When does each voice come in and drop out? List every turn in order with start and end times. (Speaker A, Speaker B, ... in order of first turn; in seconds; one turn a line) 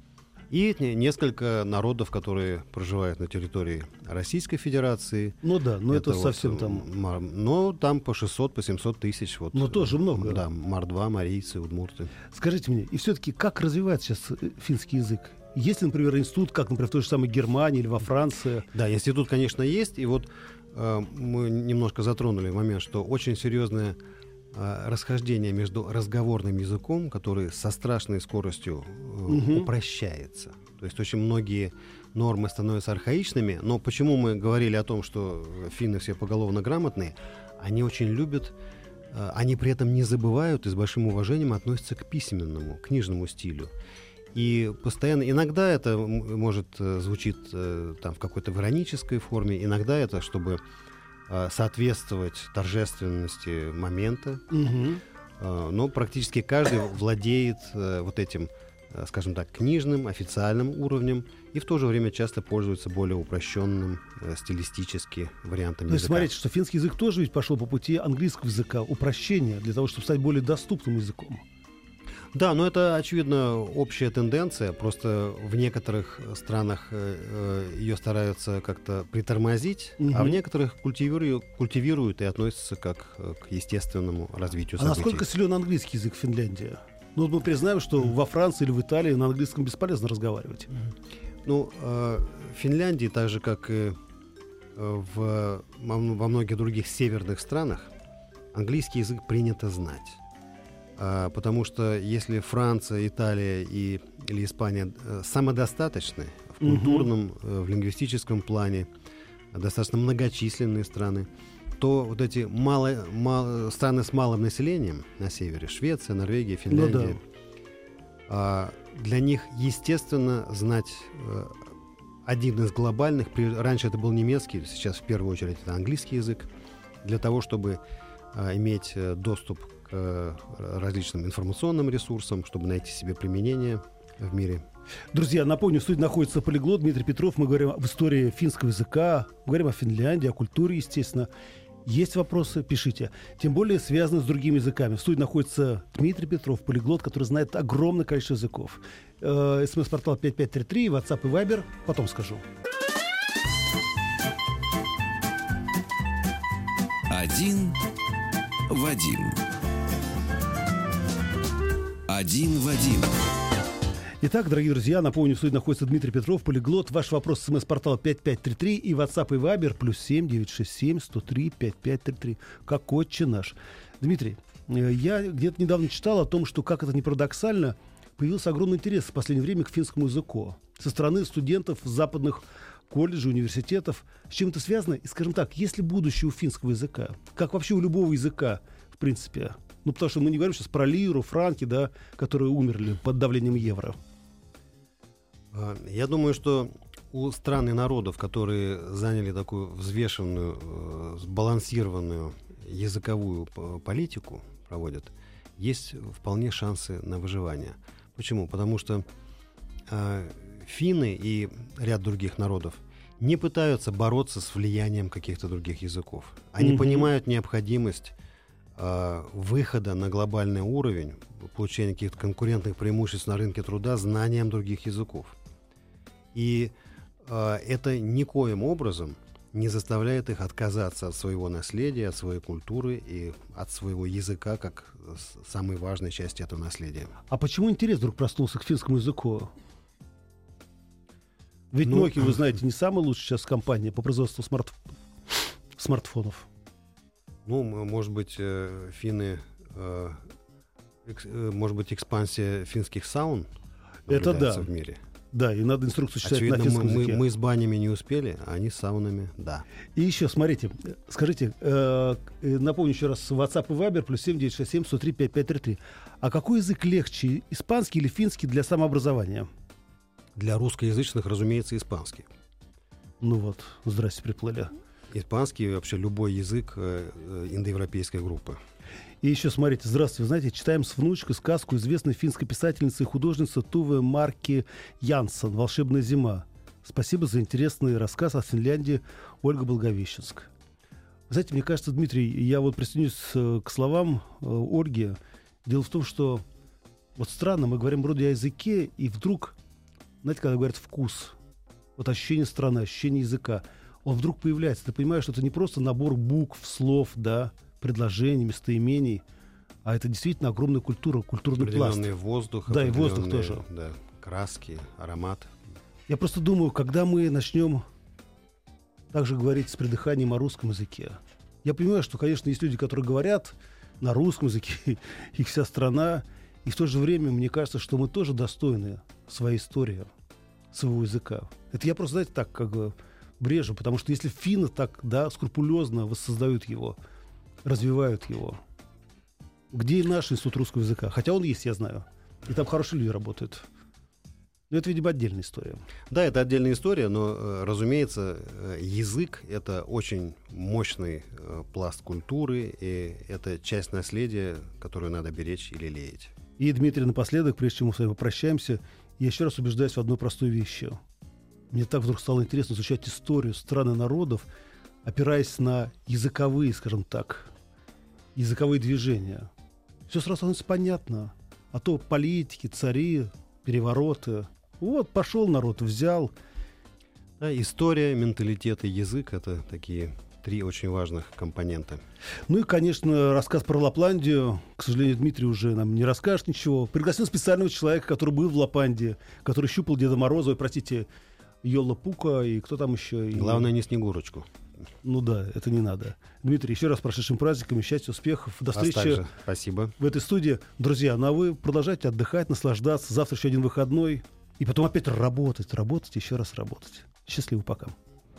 Speaker A: 0.5-5.4
Speaker B: 5.4-6.8
Speaker A: 5.9-12.1
Speaker B: 9.5-10.4
Speaker B: 12.3-18.7
Speaker A: 18.7-24.0
Speaker A: 24.5-38.5
Speaker B: 29.3-29.7
Speaker A: 39.1-43.7
Speaker A: 44.3-50.6
Speaker A: 51.3-54.4
Speaker B: 54.5-55.0
Speaker A: 55.4-66.3
Speaker B: 65.9-71.4
Speaker A: 72.3-85.2
Speaker B: 80.0-80.4
Speaker B: 84.8-90.7
Speaker A: 91.4-94.0
Speaker A: 94.8-97.9
Speaker A: 98.5-100.2
Speaker A: 101.0-108.9
Speaker B: 106.6-107.1
Speaker A: 109.5-117.2
Speaker B: 116.7-117.2
Speaker A: 118.3-121.7
Speaker A: 122.2-126.5
Speaker A: 127.0-127.8
Speaker A: 128.3-134.6
Speaker B: 135.1-141.3
Speaker B: 141.8-152.4
Speaker C: 157.1-157.8
Speaker C: 158.7-159.4
Speaker C: 162.1-163.3
Speaker B: 164.2-194.0
Speaker A: 195.5-209.1
Speaker A: 209.9-218.1
Speaker B: 216.6-217.1
Speaker A: 218.8-225.3
Speaker A: 226.3-237.1
Speaker B: 237.3-239.5
Speaker B: 241.7-244.8
Speaker A: 241.8-242.3
Speaker B: 245.3-246.5
Speaker A: 247.4-250.2
Speaker A: 251.0-253.5
Speaker B: 254.1-254.7
Speaker A: 254.1-255.0
Speaker B: 255.3-257.2
Speaker A: 256.2-259.6
Speaker B: 260.0-269.5
Speaker A: 270.4-272.3
Speaker B: 273.2-274.7
Speaker A: 275.1-278.6
Speaker B: 279.2-290.5
Speaker B: 291.3-296.4
Speaker B: 297.1-299.6
Speaker B: 300.2-301.4
Speaker B: 302.0-309.2
Speaker B: 309.8-312.1
Speaker A: 311.6-315.5
Speaker B: 312.7-313.6
Speaker B: 316.1-317.8
Speaker B: 319.1-330.1
Speaker B: 330.7-337.0
Speaker B: 337.6-338.6
Speaker B: 339.7-343.7
Speaker B: 344.7-345.8
Speaker A: 346.1-356.3
Speaker B: 356.6-361.0
Speaker B: 361.7-364.4
Speaker B: 365.0-367.5
Speaker B: 368.3-369.5
Speaker B: 370.1-376.3
Speaker A: 377.4-382.0
Speaker B: 382.5-391.1
Speaker B: 391.6-393.7
Speaker A: 393.3-394.5
Speaker B: 395.0-399.2
Speaker A: 398.7-399.9
Speaker B: 400.0-407.9